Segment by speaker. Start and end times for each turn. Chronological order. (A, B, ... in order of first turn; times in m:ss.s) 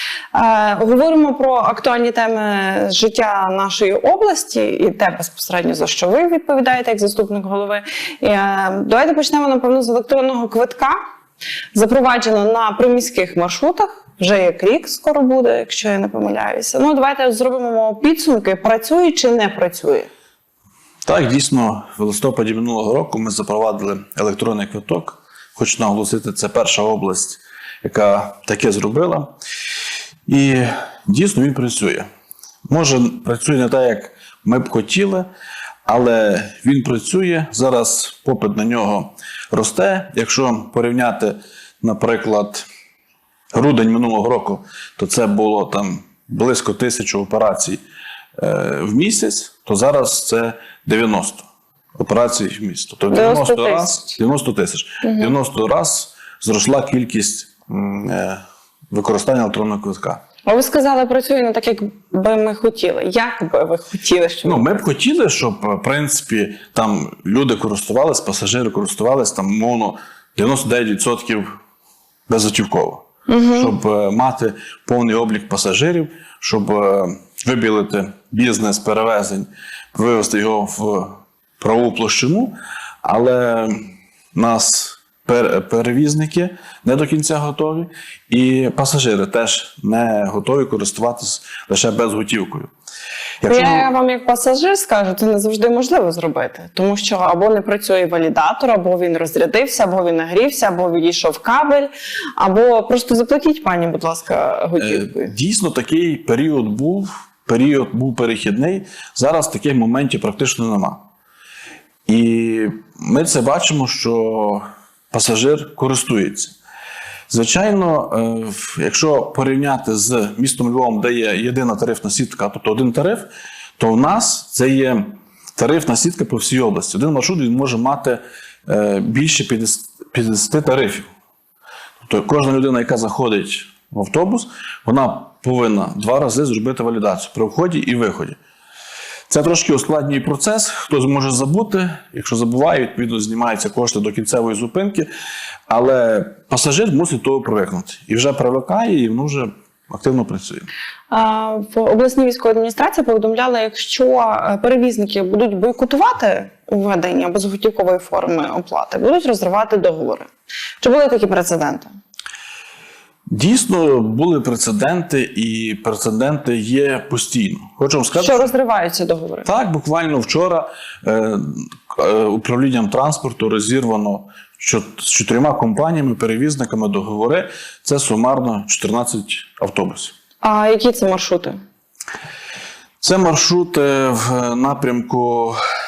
0:00.3-0:10.9 A
0:11.7-0:20.1 A
0:21.0-0:29.3 B
0:30.3-0:32.1 B
0:32.7-0:35.3 B
0:35.8-0:42.7 B
0:43.5-0:47.8 B
0:48.4-0:51.4 B
0:52.0-0:58.4 B
0:53.1-0:54.2 A
0:55.0-0:55.3 A
0:58.9-1:00.2 B
1:00.4-1:04.8 A
1:04.4-1:11.5 B
1:12.3-1:23.7 B
1:13.3-1:13.7 A
1:24.3-1:32.7 B
1:33.4-1:33.9 B
1:33.4-1:45.3 A
1:44.8-1:51.0 B
1:52.1-1:56.6 B
1:57.3-2:11.1 B
2:12.0-2:18.4 B
2:19.3-2:25.1 B
2:25.7-2:30.7 B
2:31.1-2:40.3 A
2:40.8-2:41.9 A
2:43.3-2:48.5 B
2:48.2-2:49.5 A
2:49.4-3:00.1 B
3:00.4-3:01.6 A
3:03.0-3:05.6 B